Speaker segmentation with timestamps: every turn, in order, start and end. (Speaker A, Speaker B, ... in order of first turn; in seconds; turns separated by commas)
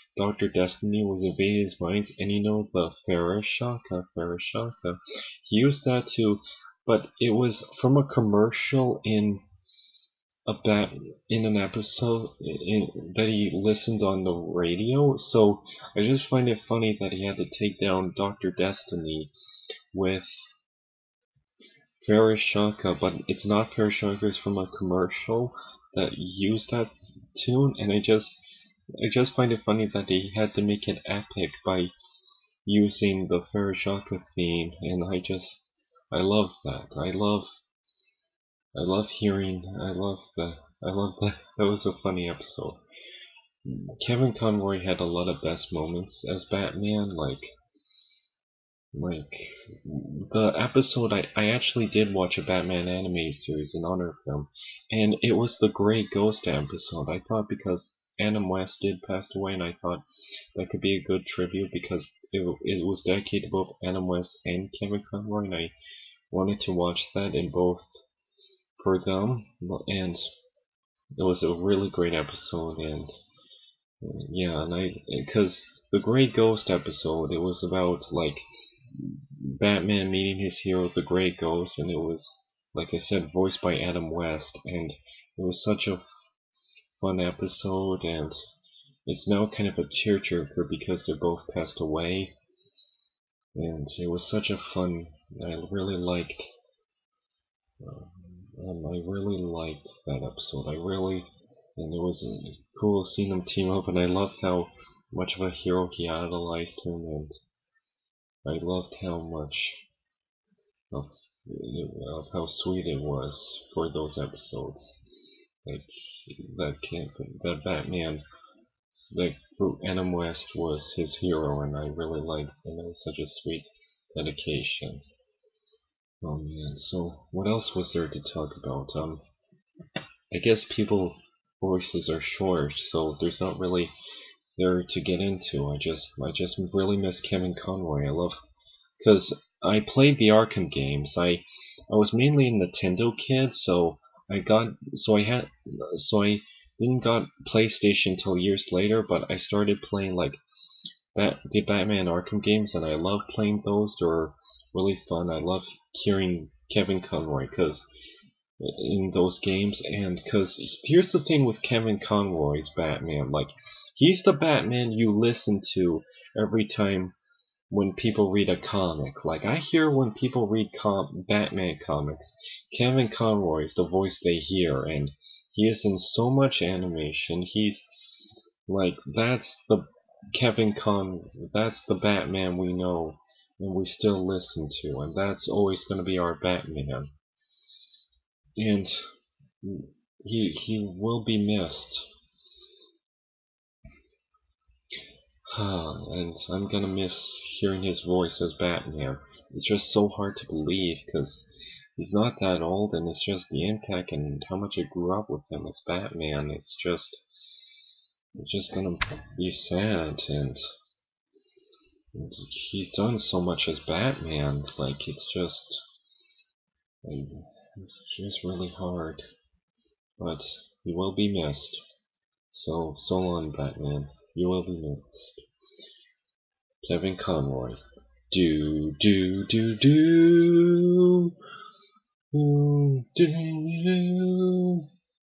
Speaker A: 0.2-9.4, Speaker A: 10.5-19.3, Speaker A: 19.9-20.5, Speaker A: 22.0-28.4, Speaker A: 29.0-31.9, Speaker A: 32.6-37.6, Speaker A: 38.8-42.8, Speaker A: 43.7-47.5, Speaker A: 48.9-65.7, Speaker A: 66.3-68.0, Speaker A: 68.8-70.3, Speaker A: 71.2-73.2, Speaker A: 74.0-86.1, Speaker A: 86.9-88.4, Speaker A: 89.1-92.3, Speaker A: 93.5-96.5, Speaker A: 97.8-107.4, Speaker A: 108.5-109.8, Speaker A: 110.9-118.2, Speaker A: 118.9-125.0, Speaker A: 126.2-129.2, Speaker A: 130.3-133.9, Speaker A: 134.6-138.4, Speaker A: 139.0-150.4, Speaker A: 151.1-157.9, Speaker A: 158.6-167.2, Speaker A: 167.7-178.1, Speaker A: 178.7-187.1, Speaker A: 188.6-189.1, Speaker A: 189.6-192.1, Speaker A: 195.5-207.2, Speaker A: 208.3-210.6, Speaker A: 212.1-215.8, Speaker A: 217.0-219.2, Speaker A: 220.2-221.8, Speaker A: 222.5-225.4, Speaker A: 226.8-227.8, Speaker A: 228.3-231.3, Speaker A: 232.3-234.8